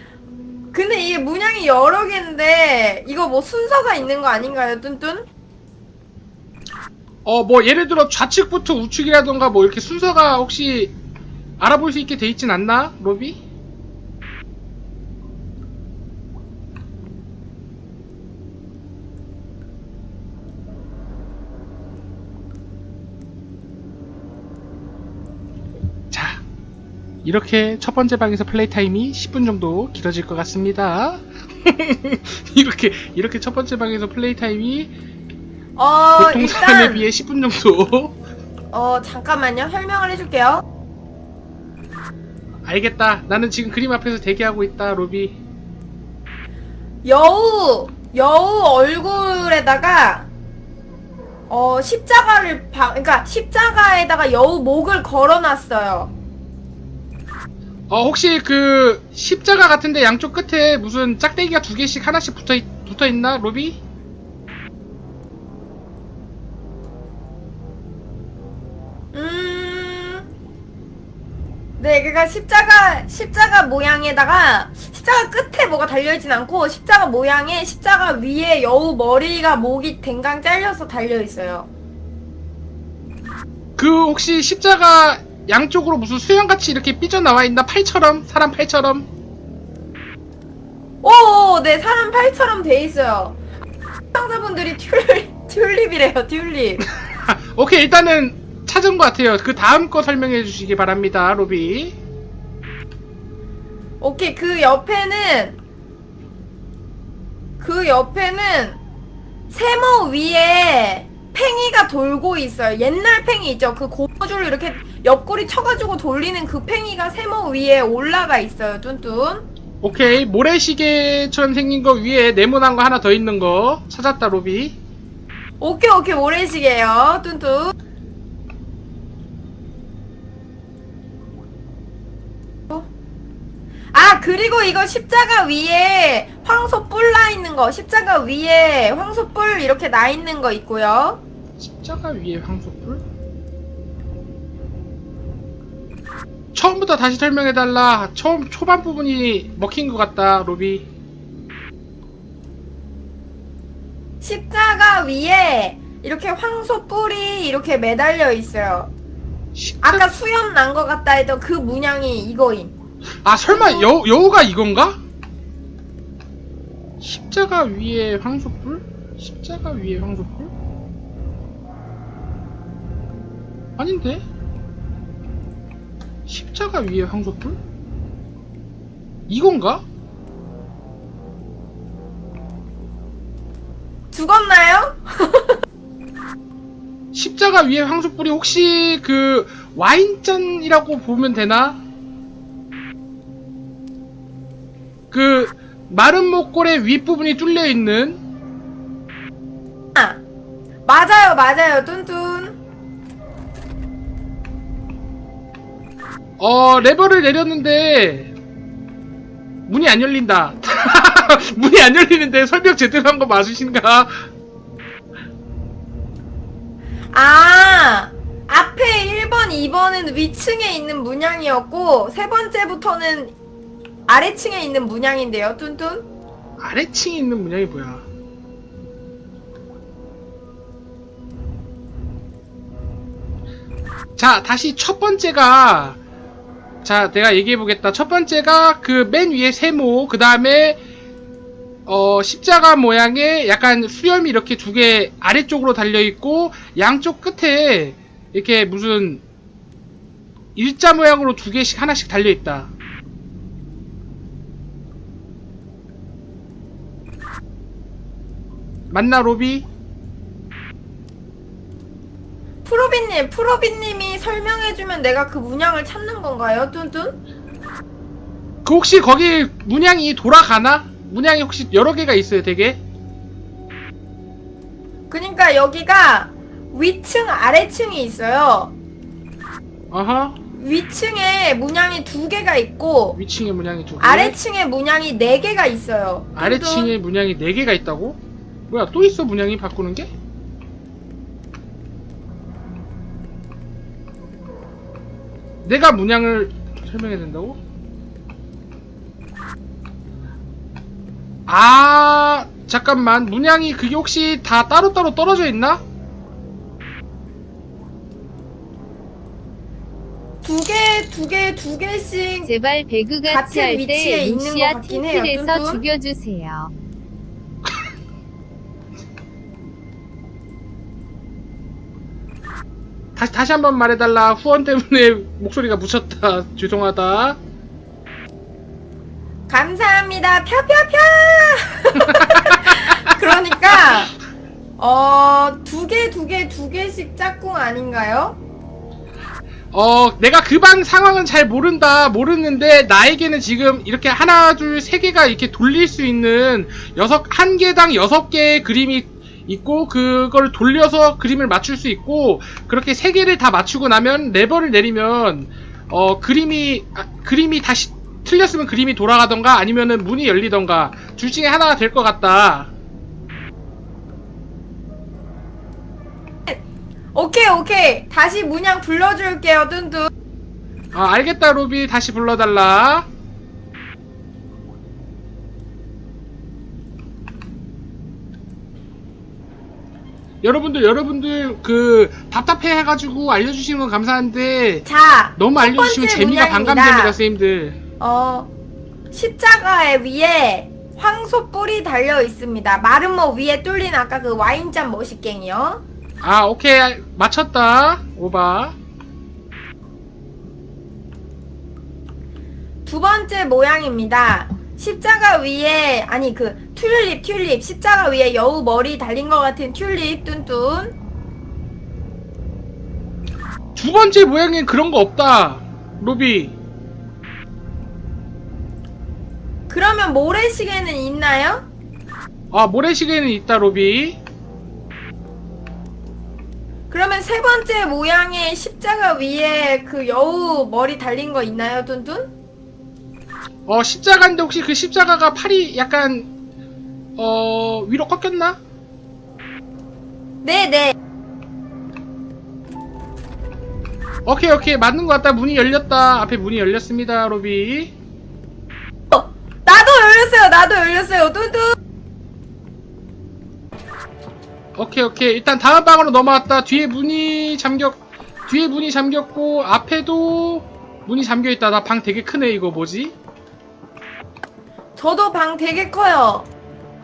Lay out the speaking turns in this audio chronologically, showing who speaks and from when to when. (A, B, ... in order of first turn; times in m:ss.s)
0:00.7-0:05.3 A
0:07.2-0:10.9 B
0:11.6-0:13.4 B
0:26.1-0:26.4 B
0:27.2-0:34.9 B
0:35.8-0:37.1 A
0:36.2-0:38.2 B
0:38.7-0:40.6 A
0:42.6-0:45.4 B
0:47.0-0:50.3 A
0:51.5-0:56.1 A
0:57.9-1:03.8 B
1:09.1-1:10.2 A
1:11.8-1:21.7 A
1:23.8-1:29.1 B
1:31.0-1:33.4 A
1:34.1-1:36.8 A
1:37.0-1:42.0 B
1:44.0-1:45.6 A
1:47.6-1:48.8 A
1:49.5-1:59.4 A
1:59.8-2:04.8 B
2:05.6-2:07.7 A
2:13.9-2:21.2 A
2:21.6-2:23.0 B
2:26.5-2:30.8 B
2:34.2-2:38.9 A
2:39.5-2:40.1 B
2:39.8-2:42.7 A
2:43.2-2:45.0 B
2:43.5-2:43.9 A
2:47.0-2:50.5 B
2:53.8-2:54.2 B
2:56.3-2:57.6 B
2:59.3-2:59.8 B
3:04.1-3:05.6 A
3:07.1-3:11.8 B
3:15.1-3:18.2 B
3:19.9-3:20.2 A
3:20.8-3:22.6 A
3:26.4-3:28.3 B
3:29.7-3:34.2 B
3:37.1-3:43.3 A
3:44.1-3:46.0 A
3:46.6-3:48.0 B
3:54.2-3:56.0 B
3:56.8-4:00.8 B
4:01.9-4:09.2 B
4:10.5-4:12.7 B
4:18.9-4:19.6 B
4:22.6-4:27.2 A
4:28.6-4:32.8 B
4:35.1-4:38.7 A
4:39.9-4:40.4 B
4:40.5-4:43.2 A
4:43.2-4:44.4 B
4:44.0-4:46.9 A
4:46.4-4:50.1 B
4:55.6-4:57.6 B
5:01.5-5:05.8 B
5:10.4-5:12.5 A
5:12.4-5:16.7 C
5:13.2-5:15.8 A
5:23.2-5:27.4 B
5:29.5-5:34.1 A
5:32.1-5:34.0 B
5:34.8-5:38.4 A
5:39.7-6:02.7 B
6:07.1-6:10.1 A
6:10.9-6:13.1 B
6:20.4-6:24.8 B
6:24.8-6:27.2 A
6:25.4-6:27.8 B
6:28.0-6:28.5 A
6:29.1-6:35.8 A
6:36.2-6:38.7 B
6:42.8-6:50.9 A
6:53.8-6:56.5 B
6:59.7-7:01.6 A
7:02.5-7:04.2 B
7:06.9-7:12.3 A
7:13.7-7:16.3 B
7:17.2-7:18.6 B
7:20.4-7:20.9 A
7:24.2-7:27.9 B
7:29.1-7:31.8 A
7:34.8-7:43.1 B
7:45.0-7:46.5 A